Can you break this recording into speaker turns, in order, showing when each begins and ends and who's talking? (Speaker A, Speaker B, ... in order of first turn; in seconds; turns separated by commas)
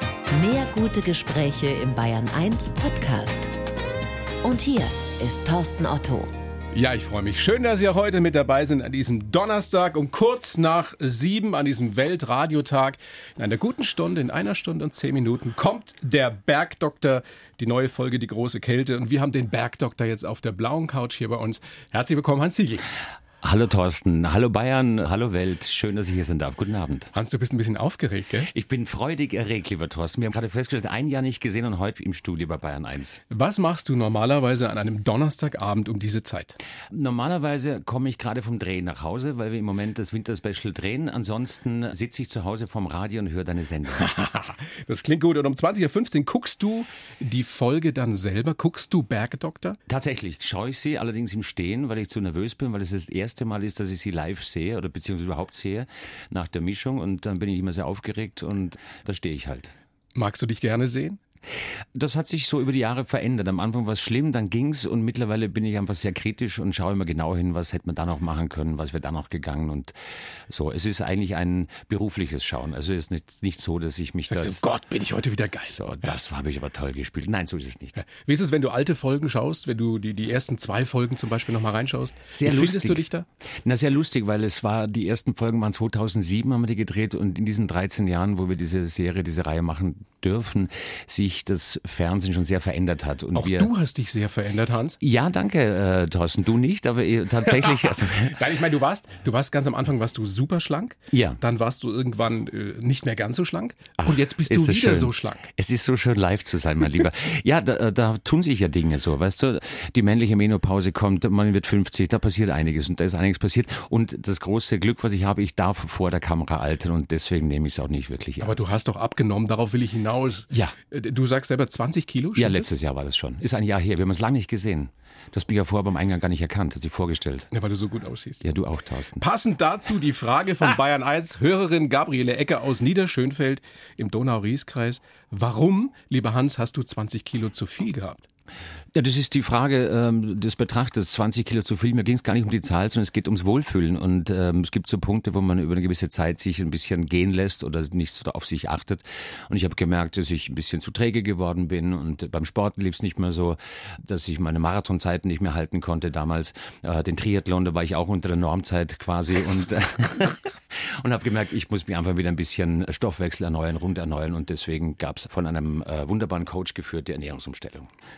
Speaker A: 0.3-3.5, Speaker A: 4.4-6.3, Speaker B: 6.7-22.9, Speaker C: 23.4-27.1, Speaker B: 27.1-28.5, Speaker C: 28.5-33.2, Speaker B: 33.3-36.6, Speaker C: 36.9-44.1, Speaker B: 44.0-49.8, Speaker C: 49.9-59.7, Speaker B: 60.1-61.2, Speaker C: 61.9-69.9, Speaker C: 70.5-74.7, Speaker B: 74.3-76.1, Speaker C: 75.7-78.0, Speaker B: 78.0-83.2, Speaker C: 82.3-83.0, Speaker C: 83.6-93.7, Speaker B: 93.3-95.0, Speaker C: 95.0-98.4, Speaker B: 97.4-105.5, Speaker C: 101.1-101.4, Speaker C: 104.0-118.7, Speaker B: 118.4-122.7, Speaker C: 122.3-127.5, Speaker B: 127.5-128.4, Speaker C: 128.4-129.2, Speaker B: 129.2-138.2, Speaker C: 138.9-167.9